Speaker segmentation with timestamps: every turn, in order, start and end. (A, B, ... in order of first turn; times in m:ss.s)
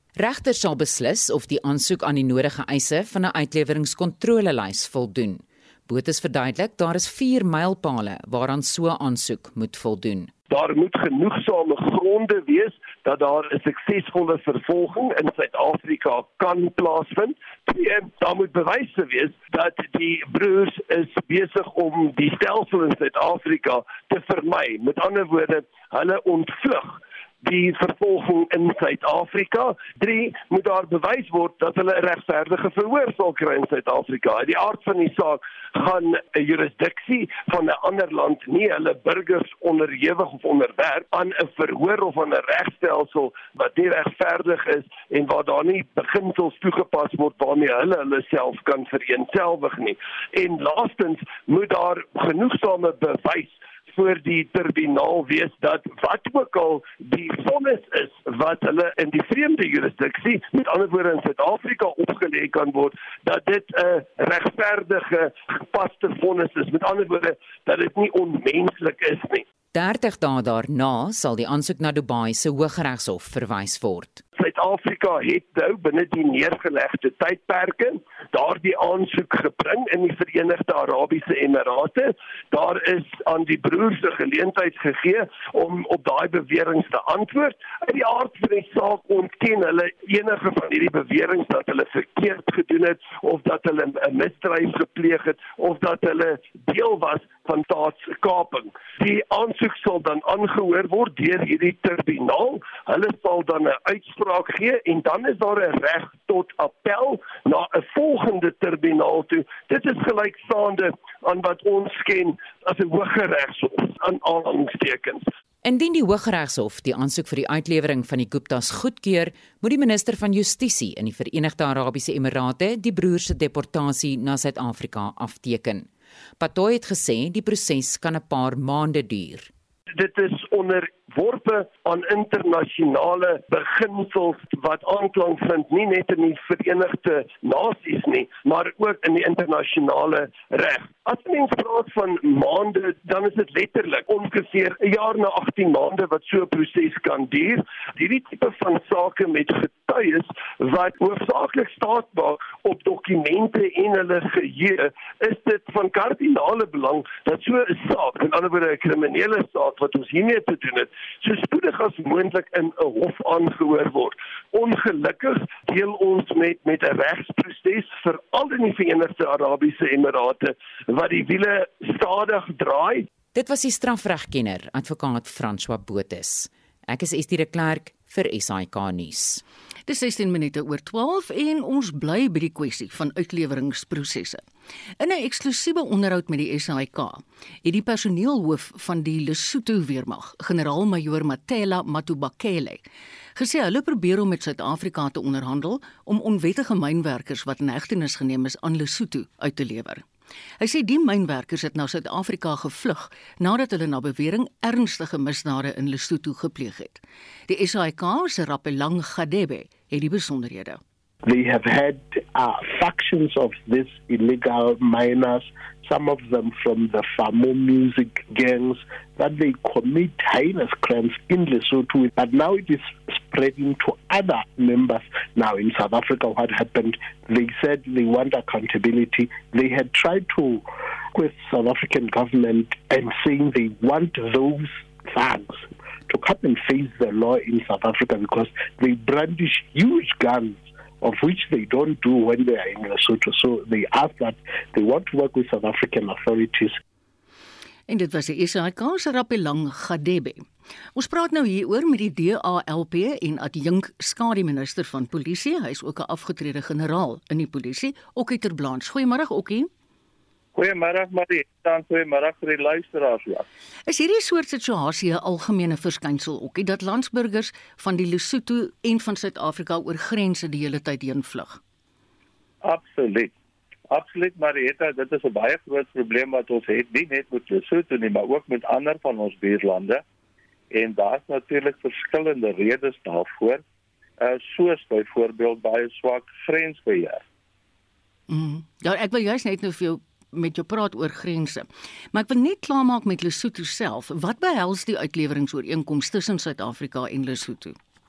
0:00.2-0:10.3 A
0:10.5-1:09.4 B
1:09.7-1:14.2 A
1:14.4-1:55.3 B
1:55.6-2:05.9 A
2:06.4-2:09.5 A
2:09.9-2:53.1 B
2:53.3-2:59.4 A
2:59.9-3:04.4 C
3:05.0-3:12.8 C
3:13.4-3:20.0 C
3:20.6-3:30.8 C
3:31.2-4:06.8 D
4:07.9-4:19.7 C
4:20.5-4:23.4 E
4:23.9-4:31.6 C
4:32.6-4:33.3 E
4:33.9-4:40.0 E
4:40.7-4:43.6 E
4:44.2-4:47.2 E
4:48.3-4:57.8 C